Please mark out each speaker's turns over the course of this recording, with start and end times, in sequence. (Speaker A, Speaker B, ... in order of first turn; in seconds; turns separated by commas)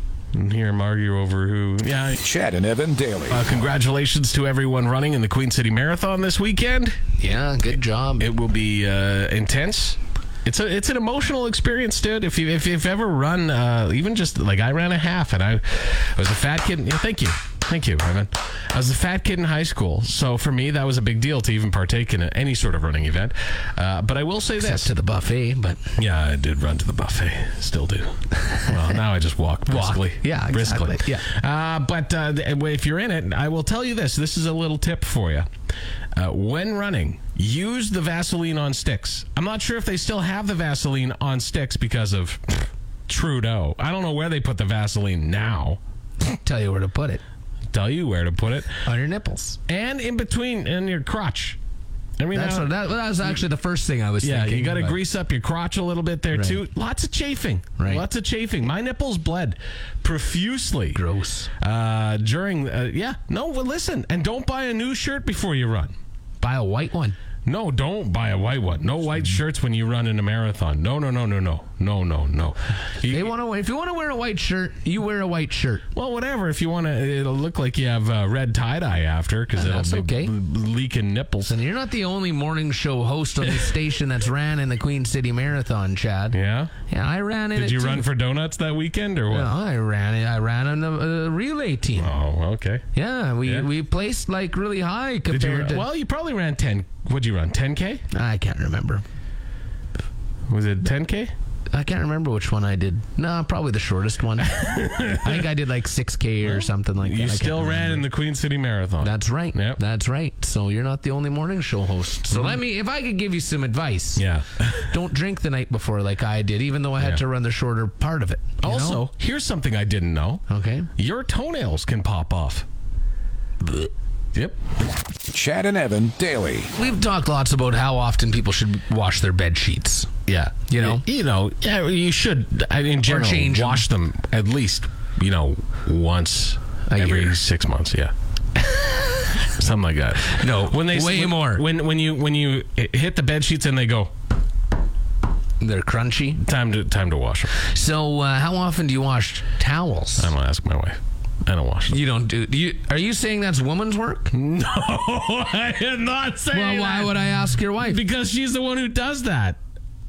Speaker A: 0.3-2.2, Speaker B: 2.2-3.5, Speaker A: 3.3-7.0, Speaker C: 7.2-8.3, Speaker A: 8.2-24.9, Speaker C: 24.6-25.9, Speaker A: 26.0-35.5, Speaker C: 28.4-28.8, Speaker C: 29.7-31.3, Speaker A: 36.1-45.8, Speaker C: 46.2-47.2, Speaker A: 47.7-48.8, Speaker C: 48.8-49.6, Speaker A: 49.7-51.6, Speaker A: 52.2-52.7, Speaker C: 52.3-55.0, Speaker A: 54.2-61.0, Speaker C: 56.3-56.6, Speaker C: 57.8-58.0, Speaker C: 60.9-61.5, Speaker A: 61.6-65.9, Speaker C: 66.4-67.2, Speaker A: 67.5-73.3, Speaker C: 73.1-75.8, Speaker A: 75.9-81.5, Speaker C: 79.5-80.3, Speaker C: 81.5-86.4, Speaker A: 86.3-86.7, Speaker C: 86.9-88.1, Speaker A: 87.6-89.5, Speaker C: 89.3-92.1, Speaker A: 92.0-92.9, Speaker C: 92.9-95.9, Speaker A: 95.3-98.0, Speaker C: 98.1-99.0, Speaker A: 100.5-101.3, Speaker C: 101.7-108.0, Speaker A: 104.5-105.4, Speaker A: 106.5-109.8, Speaker C: 109.0-114.2, Speaker A: 112.3-112.6, Speaker A: 114.2-114.9, Speaker C: 114.8-119.0, Speaker A: 118.6-120.5, Speaker C: 120.5-120.9, Speaker A: 121.0-122.7, Speaker A: 124.3-124.6, Speaker B: 125.3-126.7, Speaker C: 126.8-130.1, Speaker A: 130.3-138.1, Speaker C: 130.7-131.0, Speaker C: 133.1-133.9, Speaker C: 136.9-137.4, Speaker A: 139.4-144.1, Speaker C: 140.2-141.6, Speaker C: 145.6-146.4, Speaker A: 146.4-147.6, Speaker C: 147.6-150.3, Speaker A: 150.2-152.0, Speaker C: 151.9-154.3, Speaker A: 154.3-159.6, Speaker C: 156.5-158.0